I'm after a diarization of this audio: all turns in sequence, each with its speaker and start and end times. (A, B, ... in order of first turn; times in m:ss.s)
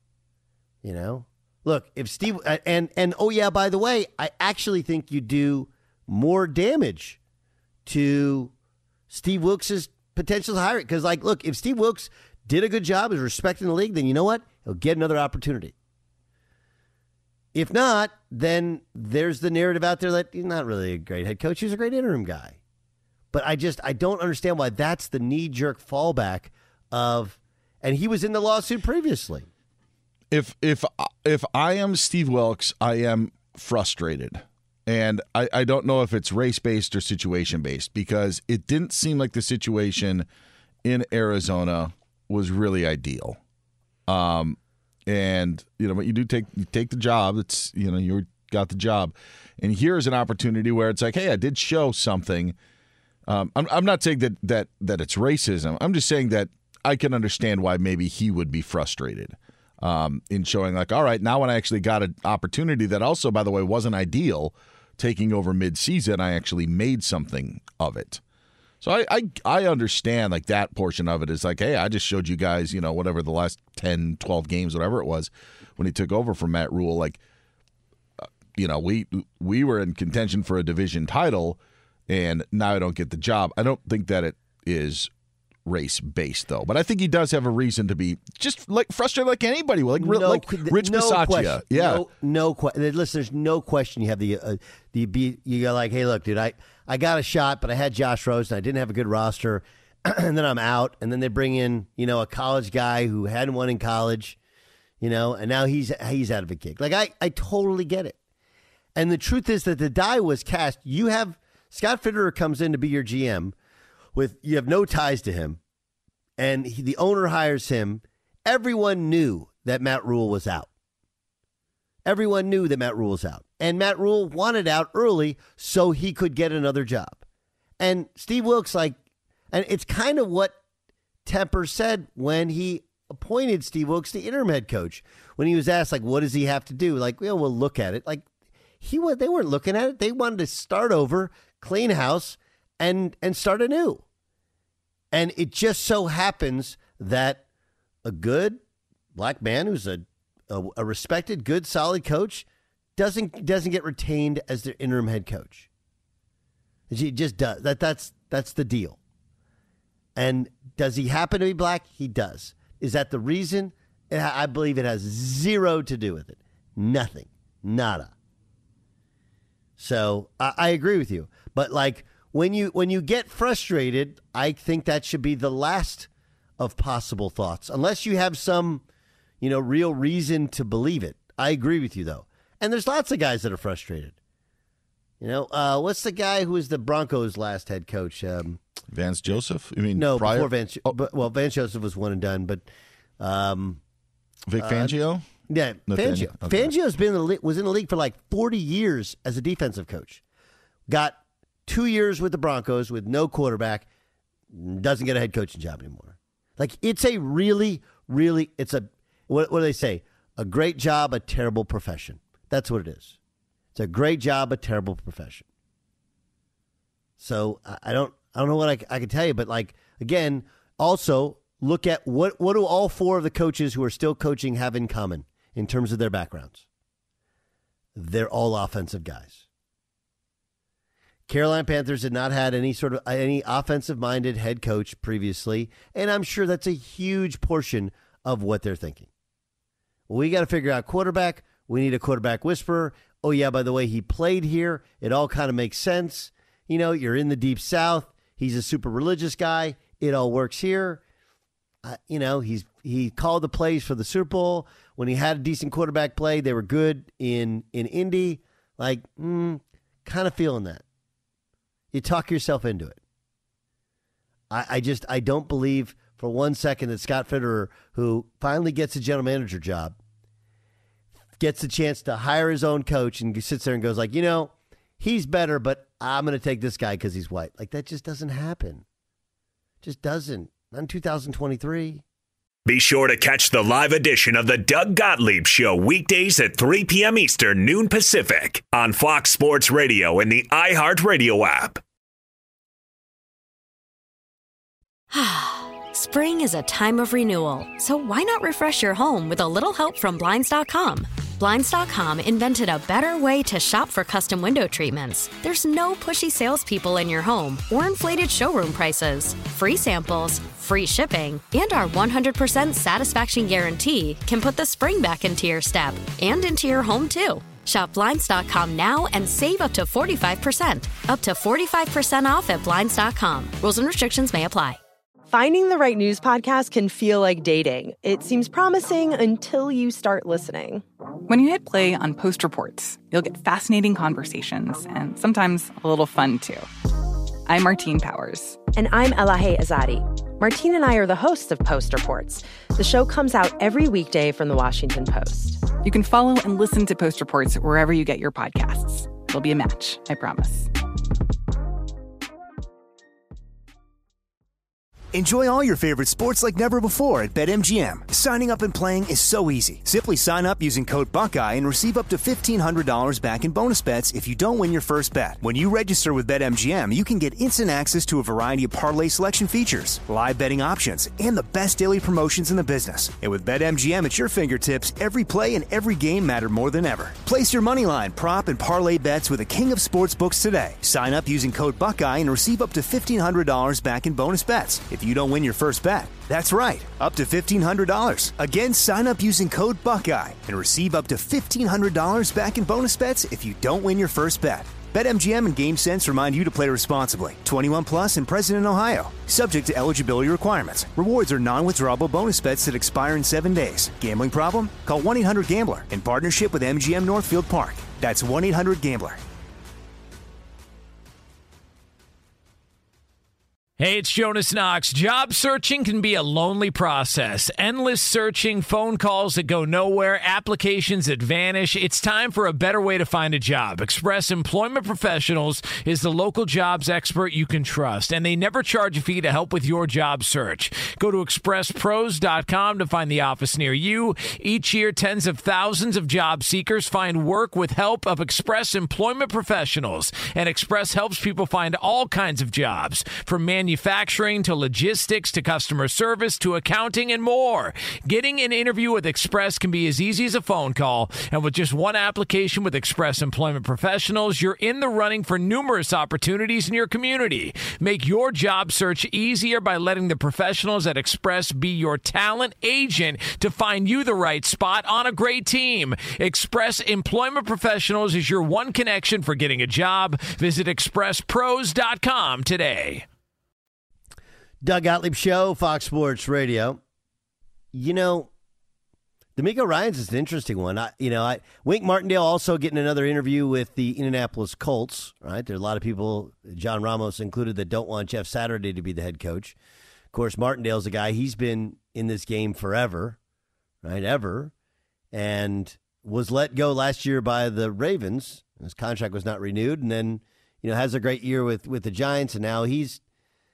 0:00.8-0:07.2 A
0:07.9-0:08.5 A
0:09.1-0:15.7 A
0:17.5-0:22.6 A
0:23.3-0:29.5 A
0:30.3-0:40.3 B
0:40.8-0:43.4 B
0:44.1-0:52.6 B
0:53.3-1:08.2 B
1:08.8-1:17.2 B
1:18.6-1:25.1 B
1:25.7-1:32.0 B
1:30.0-1:44.4 A
1:45.0-1:48.2 A
1:49.0-1:53.6 A
1:54.2-1:55.6 A
1:56.4-2:00.7 A
2:02.0-2:07.2 A
2:07.8-2:09.0 A
2:09.5-2:10.6 A
2:11.3-2:18.3 A
2:18.8-2:24.0 A
2:25.1-2:27.4 A
2:28.0-2:28.6 A
2:29.2-2:35.7 A
2:36.9-2:39.0 A
2:40.2-2:48.1 A
2:49.8-2:58.8 A
2:59.4-3:04.2 A
3:05.2-3:08.6 A
3:08.9-3:11.0 B
3:10.0-3:12.7 A
3:13.2-3:13.8 A
3:14.5-3:15.2 B
3:14.6-3:14.9 A
3:15.5-3:20.2 A
3:15.9-3:16.7 B
3:20.9-3:23.9 A
3:24.5-3:33.2 A
3:33.8-3:35.4 A
3:37.2-3:46.6 A
3:48.0-3:49.4 A
3:51.3-3:59.1 A
4:00.1-4:11.0 A
4:11.8-4:20.8 A
4:21.9-4:23.0 A
4:24.5-4:30.0 A
4:31.4-4:38.8 A
4:39.8-4:42.0 A
4:42.7-4:51.8 C
4:55.1-5:24.8 D
5:25.3-5:30.8 E
5:31.3-5:36.7 F
5:37.5-5:38.6 F
5:38.8-5:45.7 E
5:45.8-5:50.7 F
5:55.1-6:49.2 G
6:53.8-7:53.1 H
7:54.6-7:56.8 A
7:57.7-7:58.3 A
7:59.4-8:09.6 A
8:10.1-8:13.2 A
8:13.8-8:14.5 A
8:15.1-8:23.0 A